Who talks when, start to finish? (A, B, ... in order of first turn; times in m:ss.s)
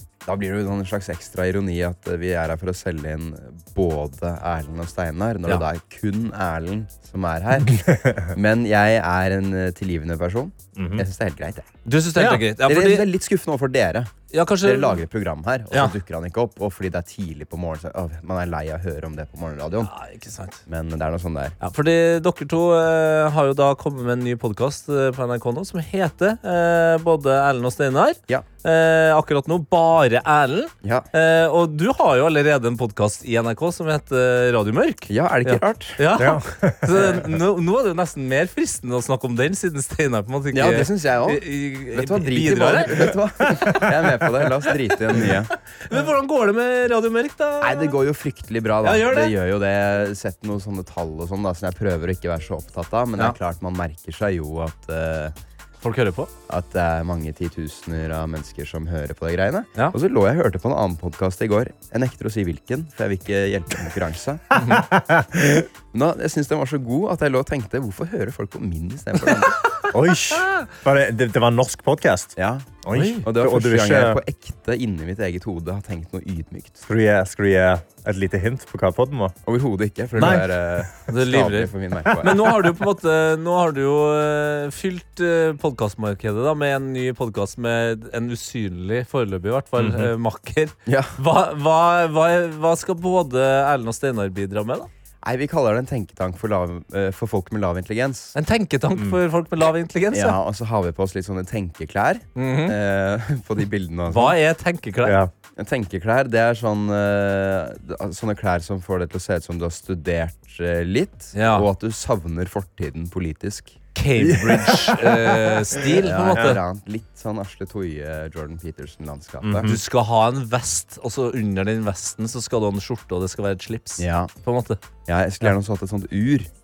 0:00.2-0:11.7 A
0:07.7-0:08.3 B
0:10.8-0:11.0 B
0:11.8-0:13.1 C
0:12.2-0:12.4 B
0:12.6-0:19.9 A
0:14.3-0:15.0 C
0:19.8-0:20.6 C
0:20.7-0:21.6 A
0:21.6-0:44.2 C
0:30.8-0:31.1 A
0:35.1-0:36.0 A
0:36.1-0:37.3 B
0:40.5-0:45.5 A
0:45.1-0:47.9 C
0:47.6-0:55.3 A
0:48.8-0:49.3 C
0:55.8-0:56.3 C
0:56.5-1:04.5 A
1:04.6-1:04.8 C
1:04.6-1:05.7 B
1:05.9-1:09.7 A
1:09.9-1:14.2 B
1:10.4-1:10.7 C
1:12.4-1:16.8 A
1:12.9-1:13.2 C
1:16.9-1:19.4 B
1:19.4-1:22.6 A
1:20.2-1:20.5 B
1:21.1-1:34.9 C
1:29.8-1:30.1 B
1:30.8-1:31.2 A
1:35.2-1:38.3 A
1:38.3-1:40.4 C
1:40.1-1:44.4 A
1:42.4-1:42.8 C
1:44.1-1:45.2 C
1:45.0-1:45.3 B
1:45.5-1:53.8 A
1:51.3-1:51.7 C
1:53.9-1:56.6 C
1:54.4-1:55.0 A
1:55.8-1:59.7 A
1:59.4-1:59.8 B
1:59.6-2:04.8 C
2:04.0-2:04.3 A
2:05.1-2:06.5 A